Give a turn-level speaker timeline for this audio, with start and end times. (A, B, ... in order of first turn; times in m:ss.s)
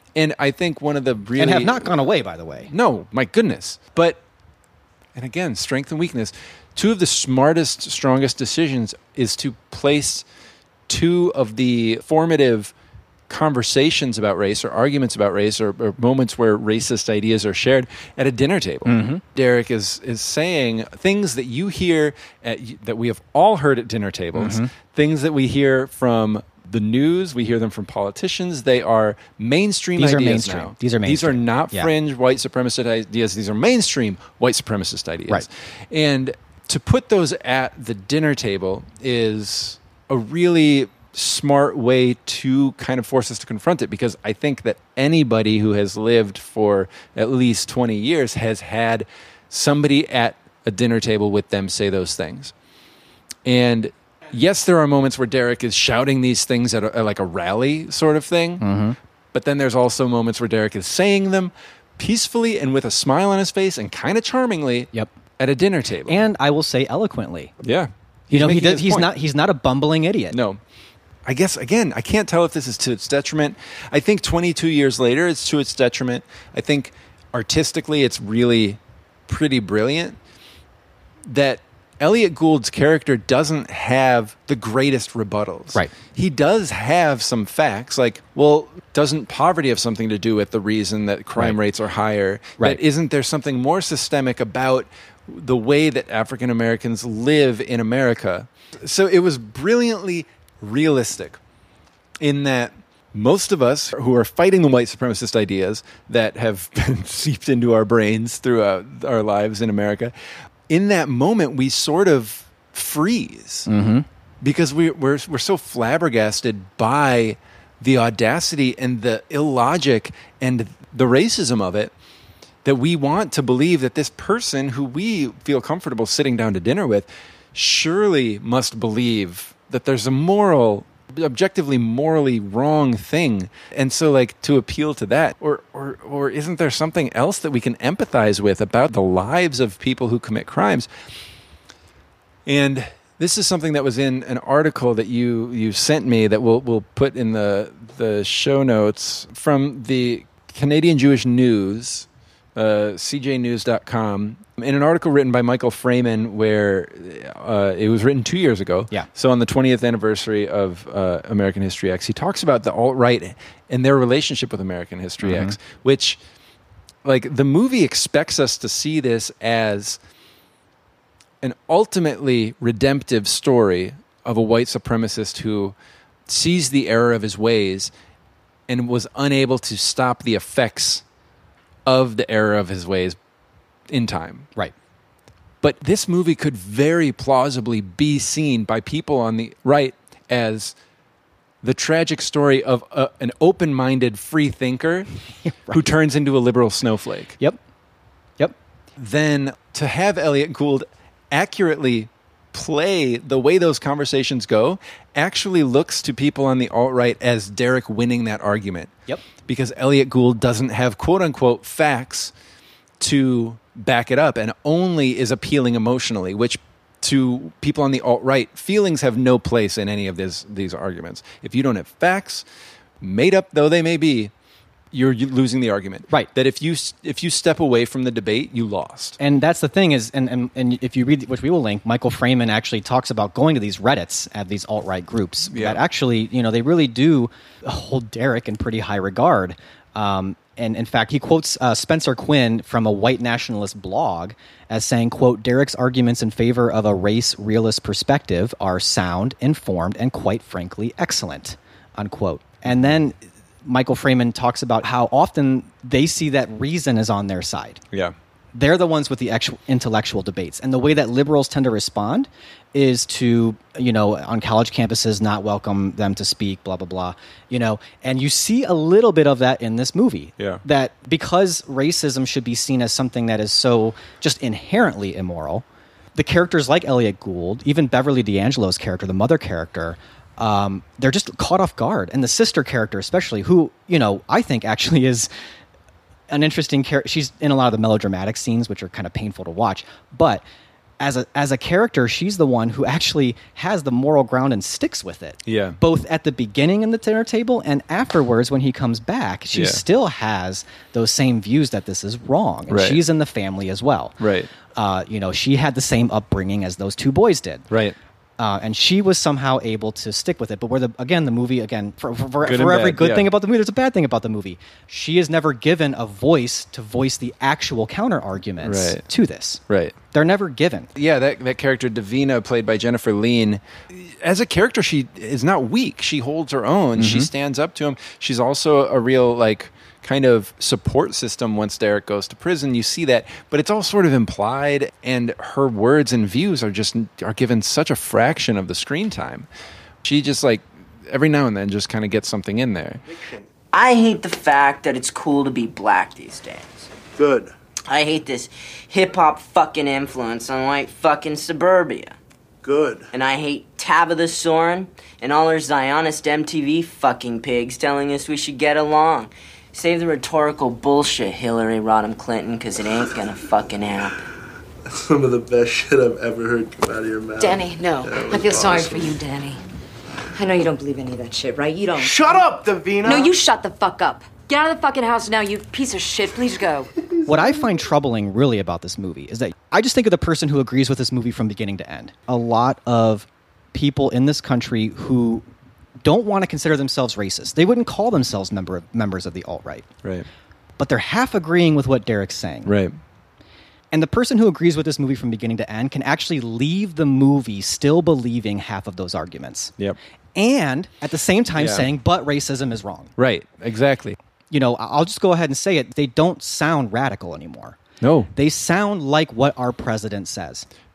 0:00.1-0:01.9 A
0:01.4-0:02.7 B
0:02.7-0:04.2 A
0:05.1-0:10.2 A
0:10.9-0:12.7 A
0:13.3-0:52.5 A
0:18.8-0:19.2 B
0:24.3-0:24.7 B
0:30.0-0:31.9 B
0:53.4-0:58.6 A
0:58.6-0:59.0 B
0:59.3-1:06.2 A
1:06.1-1:07.5 B
1:07.6-1:09.1 A
1:08.3-1:10.4 B
1:10.3-1:10.6 A
1:11.2-1:20.2 A
1:21.2-1:41.4 A
1:42.2-1:50.1 A
1:50.7-1:53.7 A
1:53.7-1:54.0 B
1:54.4-2:01.9 A
2:02.6-2:20.9 A
2:22.4-2:46.2 A
2:45.2-2:45.6 B
2:47.0-2:50.0 A
2:51.4-2:55.7 A
2:56.3-2:57.9 A
2:58.7-3:01.0 A
3:01.8-3:03.2 A
3:03.9-3:04.5 A
3:05.6-3:10.7 A
3:11.6-3:15.1 A
3:15.4-3:15.9 B
3:15.7-3:17.4 A
3:19.0-3:32.3 A
3:33.0-3:42.4 A
3:43.0-3:44.3 A
3:44.9-3:49.2 A
3:49.2-4:17.8 B
3:55.5-3:55.8 A
4:18.5-4:35.6 B
4:36.1-4:45.3 B
4:46.3-4:50.4 B
4:51.0-5:04.2 B
4:55.4-4:55.8 A
4:59.5-4:59.8 A
5:02.7-5:03.0 A
5:04.2-5:04.5 A
5:04.7-5:07.7 B
5:07.7-5:08.0 A
5:08.4-5:20.9 B
5:12.4-5:13.3 A
5:18.6-5:19.0 A
5:19.7-5:19.9 A
5:20.9-5:39.5 A
5:27.0-5:27.3 B
5:40.0-5:43.0 A
5:43.7-5:46.9 C
5:47.2-5:47.5 D
5:47.9-5:52.2 C
5:52.6-5:53.1 D
5:53.1-6:04.2 C
6:04.9-6:09.2 D
6:07.4-6:09.6 E
6:10.4-6:12.5 E
6:11.9-6:13.3 D
6:13.0-6:16.9 E
6:17.3-6:25.4 B
6:26.0-6:29.9 B
6:30.8-6:32.7 B
6:32.6-6:33.0 A
6:33.9-6:39.7 B
6:40.3-6:43.1 B
6:41.6-6:41.9 A
6:43.2-6:44.2 A
6:44.5-6:47.8 B
6:48.0-6:48.3 A
6:48.3-6:50.6 B